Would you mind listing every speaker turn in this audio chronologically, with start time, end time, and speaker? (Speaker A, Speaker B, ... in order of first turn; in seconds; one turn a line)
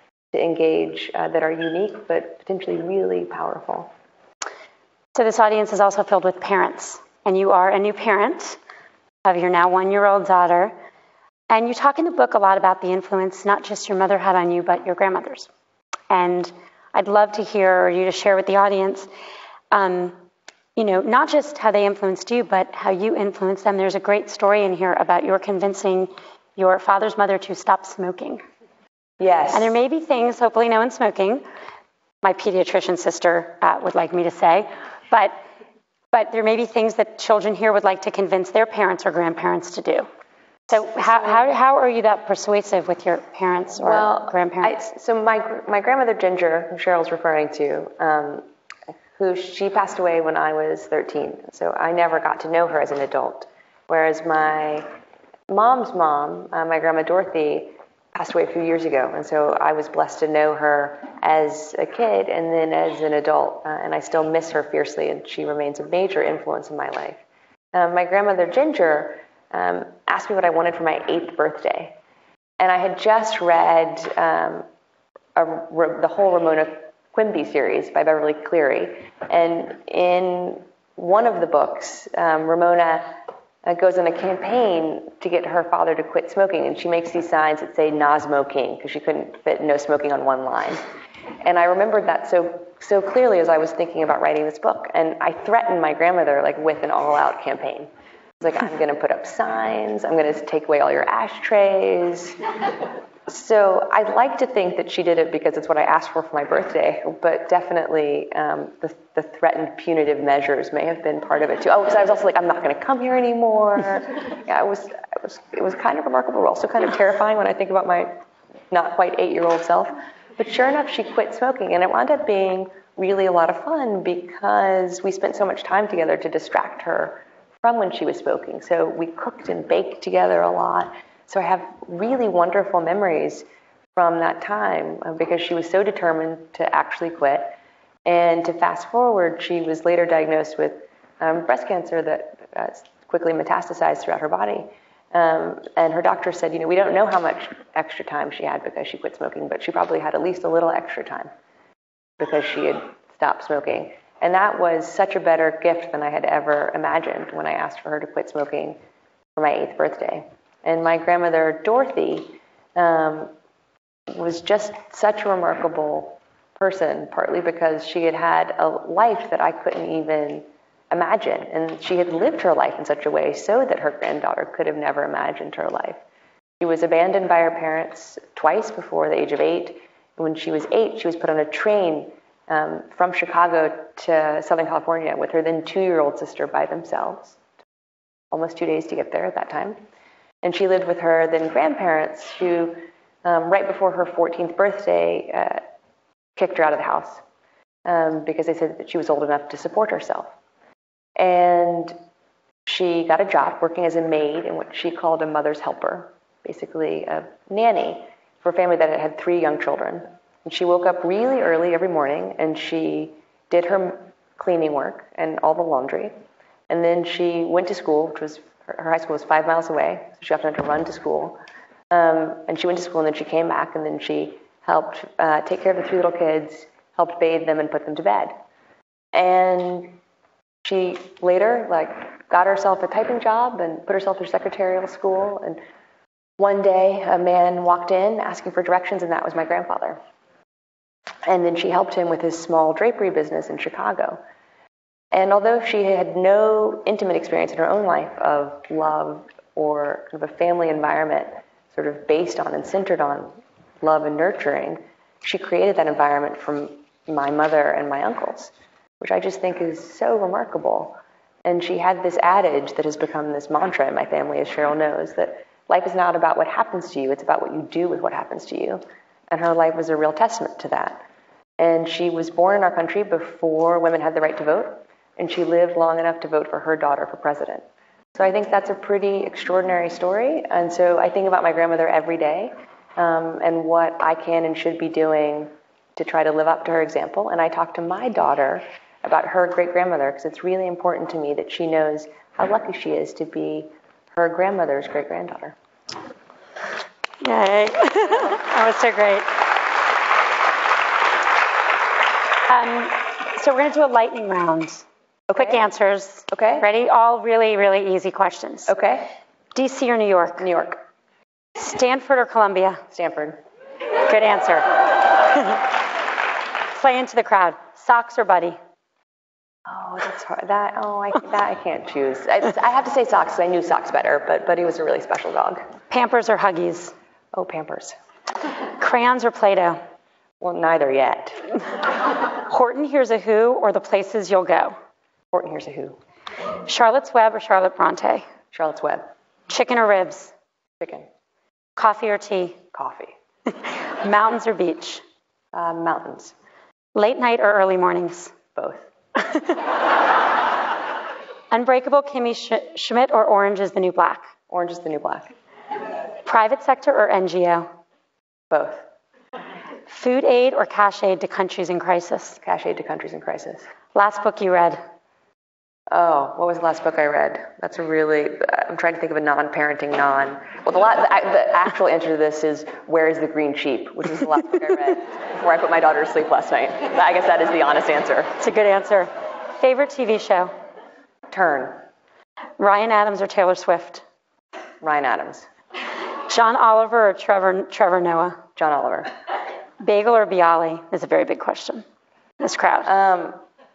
Speaker A: 0.3-3.9
Speaker B: 5.1-8.6
Speaker B: 9.2-10.7
Speaker B: 11.5-15.5
Speaker B: 16.1-19.1
Speaker B: 19.7-20.2
Speaker B: 20.8-28.4
Speaker A: 29.2-29.7
Speaker B: 29.5-31.4
Speaker B: 32.2-35.4
Speaker B: 36.1-40.1
Speaker B: 40.7-44.7
Speaker A: 40.8-41.4
Speaker A: 43.8-48.5
Speaker A: 49.2-54.9
Speaker A: 55.5-67.2
Speaker A: 67.7-71.9
Speaker A: 72.6-74.7
Speaker A: 75.3-90.8
Speaker A: 91.4-97.9
Speaker A: 98.4-102.4
Speaker A: 103.3-118.1
Speaker A: 118.7-151.3
Speaker A: 152.2-158.8
Speaker A: 159.3-163.3
Speaker A: 164.1-176.0
Speaker A: 176.6-187.4
Speaker A: 188.3-189.8
Speaker A: 190.4-195.6
Speaker A: 196.3-197.2
Speaker A: 197.8-200.3
Speaker A: 201.2-201.9
Speaker A: 202.7-216.1
Speaker A: 216.7-221.4
Speaker A: 221.9-228.4
Speaker A: 229.1-230.0
Speaker A: 230.6-235.6
Speaker A: 236.4-240.0
Speaker A: 241.2-244.2
Speaker A: 245.1-271.0
Speaker A: 271.6-295.6
Speaker B: 297.2-299.3
Speaker B: 302.5-304.8
Speaker A: 305.3-305.6
Speaker B: 305.4-308.7
Speaker A: 306.3-306.7
Speaker A: 308.6-309.1
Speaker B: 309.5-310.5
Speaker A: 310.4-310.8
Speaker B: 311.6-312.8
Speaker A: 312.9-313.4
Speaker B: 314.1-314.7
Speaker B: 315.2-315.6
Speaker B: 316.7-318.6
Speaker A: 319.6-325.6
Speaker B: 325.9-326.9
Speaker A: 327.3-328.0
Speaker B: 328.8-329.8
Speaker A: 330.4-331.4
Speaker B: 332.4-334.8
Speaker A: 335.3-336.0
Speaker B: 336.6-338.3
Speaker A: 338.5-339.1
Speaker B: 339.5-340.3
Speaker A: 340.8-341.1
Speaker B: 341.8-342.6
Speaker A: 342.7-343.1
Speaker B: 343.6-345.0
Speaker A: 345.5-346.3
Speaker B: 346.9-348.3
Speaker A: 348.6-348.8
Speaker B: 349.2-349.6
Speaker B: 351.5-354.3
Speaker A: 354.5-355.3
Speaker B: 356.2-357.7
Speaker A: 358.5-358.8
Speaker B: 359.9-362.4
Speaker A: 362.4-363.7
Speaker B: 363.9-364.8
Speaker A: 365.9-378.3
Speaker B: 378.4-380.5
Speaker A: 381.3-381.8
Speaker B: 382.6-384.0
Speaker A: 384.8-385.5
Speaker B: 386.3-388.4
Speaker A: 388.6-389.1
Speaker B: 389.8-391.8
Speaker B: 392.4-392.9
Speaker A: 392.8-393.4